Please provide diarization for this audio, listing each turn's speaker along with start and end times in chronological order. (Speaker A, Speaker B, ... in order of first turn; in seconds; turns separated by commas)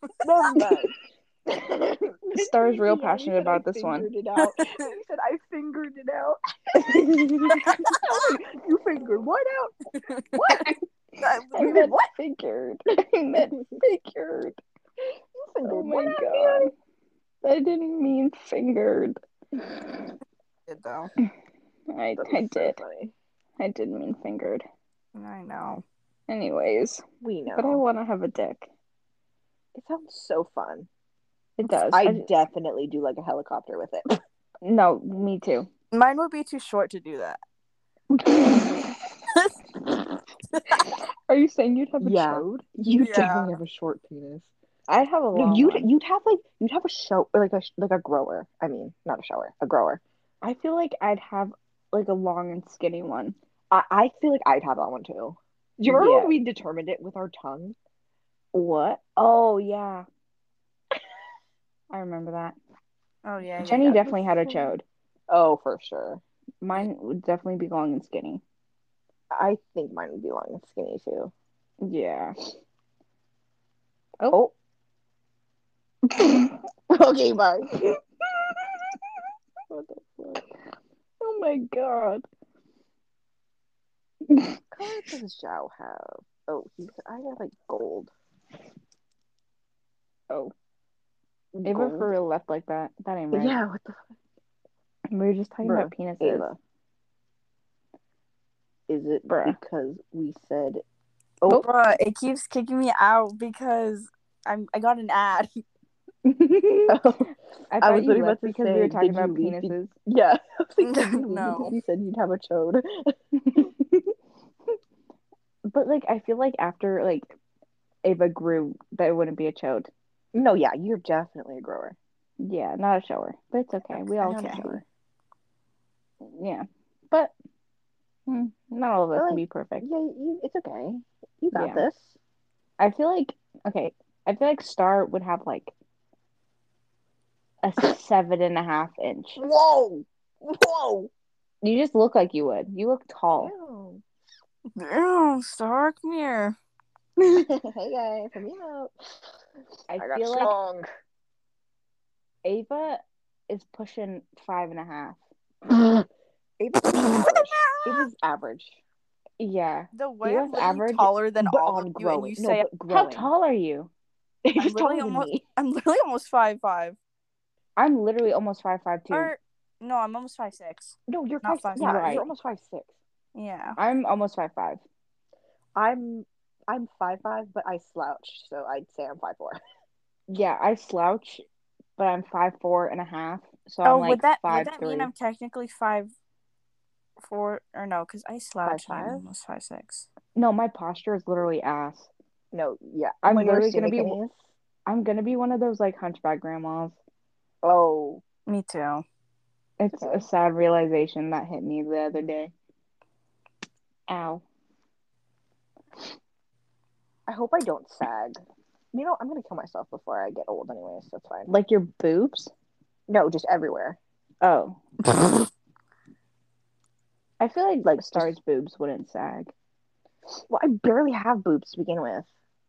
Speaker A: 0.2-0.9, Speaker B: 1.6-4.1, Speaker A: 2.2-9.8, Speaker C: 4.4-4.9, Speaker B: 6.7-7.7, Speaker C: 7.5-8.0, Speaker C: 10.1-10.3, Speaker A: 10.3-10.8, Speaker C: 11.2-11.9, Speaker A: 11.5-12.1, Speaker B: 11.5-14.6, Speaker A: 15.3-16.7, Speaker B: 15.7-16.7, Speaker B: 17.4-19.2, Speaker C: 20.7-21.1, Speaker B: 21.9-22.8, Speaker A: 22.2-23.1, Speaker B: 23.6-24.6, Speaker C: 25.1-25.8, Speaker B: 26.3-28.7, Speaker A: 27.2-27.8, Speaker A: 29.7-30.9, Speaker B: 31.6-32.2, Speaker A: 31.9-34.2, Speaker B: 34.6-35.7, Speaker C: 35.9-37.4, Speaker A: 38.1-38.7, Speaker B: 41.3-42.6, Speaker A: 42.0-44.5, Speaker C: 42.9-43.5, Speaker B: 44.9-45.9, Speaker A: 45.3-50.0, Speaker B: 50.4-53.4, Speaker A: 53.7-57.8, Speaker B: 55.9-56.4, Speaker B: 58.5-60.0, Speaker B: 61.9-62.5, Speaker C: 63.2-64.5, Speaker B: 63.6-64.8, Speaker A: 65.3-66.2, Speaker B: 66.6-68.4, Speaker A: 69.3-71.3, Speaker B: 71.8-72.3, Speaker B: 74.2-74.4, Speaker A: 76.9-77.8, Speaker B: 79.7-80.4, Speaker B: 81.2-82.2, Speaker B: 84.3-84.9, Speaker A: 84.7-88.1, Speaker A: 91.5-92.1, Speaker B: 91.6-93.6, Speaker A: 93.3-94.0, Speaker B: 95.1-96.5, Speaker A: 95.6-96.6, Speaker A: 98.9-100.8, Speaker B: 99.3-99.6, Speaker C: 101.5-105.6, Speaker B: 106.2-107.0, Speaker A: 106.9-113.7, Speaker B: 107.7-109.9, Speaker C: 110.8-111.7, Speaker B: 113.5-114.1, Speaker B: 115.7-117.3, Speaker B: 118.0-119.9, Speaker A: 120.3-122.0, Speaker B: 122.4-124.8, Speaker A: 123.9-124.8, Speaker C: 124.2-124.6, Speaker B: 126.2-127.3, Speaker B: 128.3-129.9, Speaker A: 129.1-132.1, Speaker B: 131.5-131.9, Speaker B: 132.8-135.7, Speaker B: 137.6-139.4, Speaker A: 139.3-141.1, Speaker B: 141.6-143.5, Speaker A: 143.3-144.0, Speaker C: 144.8-146.6, Speaker A: 147.2-149.2, Speaker B: 149.9-150.5, Speaker A: 149.9-150.8, Speaker B: 152.4-155.2, Speaker A: 156.6-158.8, Speaker C: 156.9-158.1, Speaker B: 159.4-161.1, Speaker C: 159.9-162.7, Speaker A: 161.4-163.3, Speaker B: 162.9-163.9, Speaker A: 164.4-165.4, Speaker C: 164.6-167.0, Speaker B: 167.8-169.3, Speaker C: 169.1-171.9, Speaker A: 171.1-172.9, Speaker B: 171.8-172.3, Speaker C: 173.3-173.8, Speaker B: 173.8-174.8, Speaker A: 175.7-179.6, Speaker B: 180.3-181.4, Speaker B: 182.0-185.1, Speaker C: 183.8-186.1, Speaker C: 187.2-190.1, Speaker A: 188.6-189.2, Speaker B: 190.3-192.1, Speaker A: 192.5-194.3, Speaker B: 193.2-194.2, Speaker B: 194.8-197.0, Speaker A: 197.6-198.2, Speaker C: 198.5-199.0, Speaker B: 199.8-202.5, Speaker A: 199.9-200.3, Speaker B: 204.1-204.4, Speaker A: 207.3-208.4, Speaker A: 208.9-211.5, Speaker B: 211.5-212.5, Speaker A: 213.1-214.0, Speaker B: 214.4-214.8, Speaker C: 215.1-215.4, Speaker B: 217.4-219.5, Speaker A: 217.8-218.3, Speaker A: 220.5-222.3